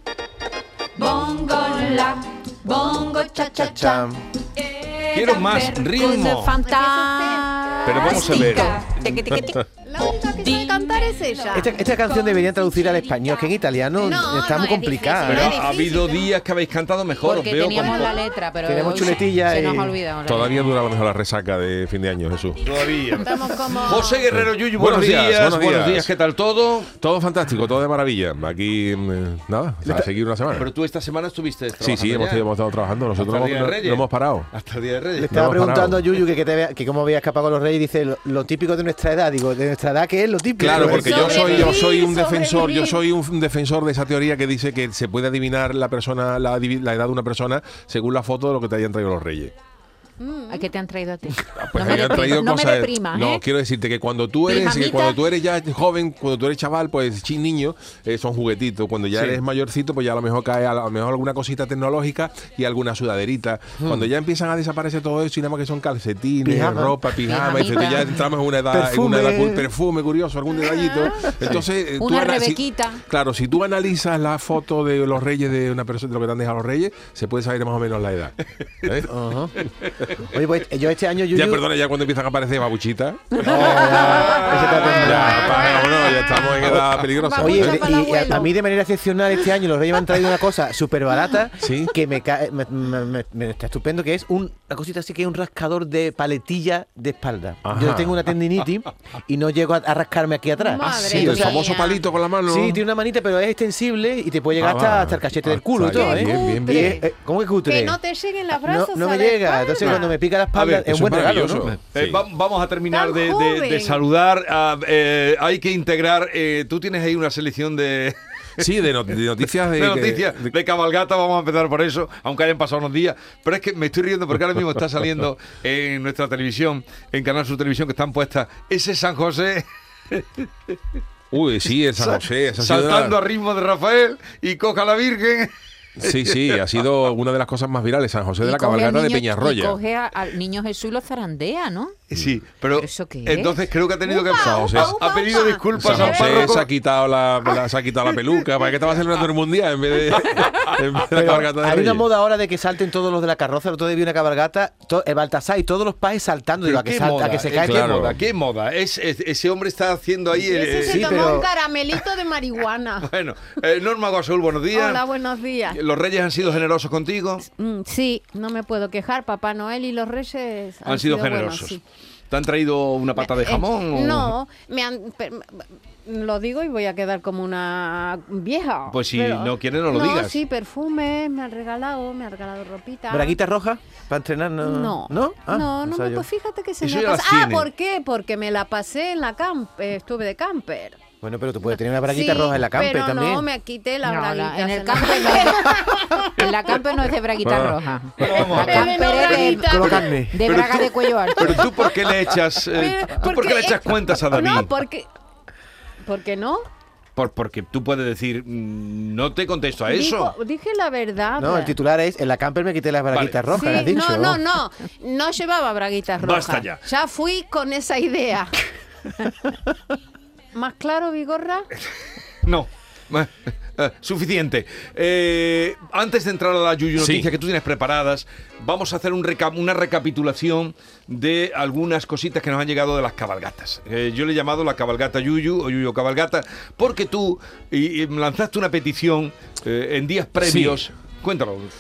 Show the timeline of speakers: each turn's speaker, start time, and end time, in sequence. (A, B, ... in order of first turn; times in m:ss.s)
0:01.0-0:06.4 A
0:03.2-0:03.9 B
0:03.4-0:04.2 C
0:05.1-0:06.5 D
0:05.8-0:09.6 E
0:06.6-0:07.5 B
0:07.8-0:08.9 D
0:08.0-0:08.9 A
0:09.8-0:11.9 B
0:10.3-0:13.6 A
0:11.5-0:15.6 C
0:14.0-0:16.3 B
0:15.2-0:18.2 D
0:17.2-0:20.7 E
0:18.6-0:20.0 C
0:20.2-0:23.0 F
0:22.6-0:26.9 D
0:23.1-0:24.3 B
0:24.3-0:26.1 F
0:27.0-0:30.7 F
0:30.5-0:32.4 D
0:31.8-0:34.5 F
0:33.2-0:35.3 D
0:35.2-0:41.4 C
0:35.3-0:36.0 F
0:40.6-0:49.5 F
0:40.6-0:41.8 D
0:40.9-0:43.0 B
0:50.2-0:50.7 B
0:50.5-0:53.4 E
0:51.4-1:19.1 F
0:54.5-0:55.2 E
0:59.1-0:59.4 D
1:03.8-1:04.1 C
1:06.4-1:07.0 C
1:07.2-1:08.2 E
1:08.7-1:09.7 C
1:12.0-1:13.0 E
1:19.1-1:19.5 C
1:20.2-1:21.6 C
1:21.3-1:28.0 F
1:23.4-1:25.7 C
1:24.1-1:24.5 B
1:25.6-1:28.5 B
1:27.3-1:41.6 C
1:31.6-1:31.9 F
1:37.6-1:38.3 F
1:40.6-1:42.0 B
1:40.8-1:42.8 F
1:42.5-1:48.0 C
1:44.6-1:47.0 F
1:45.9-1:47.0 B
1:47.7-1:50.2 B
1:48.6-1:51.7 C
1:50.5-1:50.8 D
1:50.8-1:52.2 F
1:51.6-1:58.6 D
1:52.9-1:54.0 B
1:58.6-2:00.5 F
1:59.4-2:10.7 D
2:11.3-2:13.2 F
2:12.0-2:16.8 D
2:16.0-2:19.8 F
2:18.4-2:22.0 E
2:22.1-2:26.7 D
2:22.7-2:23.6 E
2:24.0-2:26.6 B
2:24.3-2:25.0 F
2:25.7-2:32.0 F
2:31.1-2:38.1 C
2:36.6-2:41.4 D
2:37.6-2:38.2 F
2:40.4-2:43.1 B
2:40.8-2:41.5 C
2:43.0-2:45.0 D
2:44.7-2:45.8 B
2:45.7-2:47.5 D
2:47.5-2:51.8 B
2:50.8-2:51.8 D
2:52.3-2:54.3 D
2:53.2-3:03.4 B
2:58.9-3:00.4 D
3:03.1-3:06.3 C
3:04.6-3:11.0 B
3:06.8-3:07.7 D
3:11.2-3:13.5 C
3:12.0-3:16.8 B
3:14.0-3:21.6 E
3:17.4-3:17.8 F
3:18.2-3:24.7 D
3:18.3-3:20.1 B
3:19.0-3:20.5 C
3:22.7-3:25.1 B
3:26.0-3:26.6 B
3:27.2-3:30.3 D
3:29.9-3:31.8 B
3:31.4-3:34.4 C
3:33.1-3:33.8 D
3:33.5-3:38.6 B
3:36.2-3:36.8 D
3:40.5-3:41.7 B
3:42.4-4:01.7 D
3:47.0-3:47.3 F
4:00.4-4:00.9 F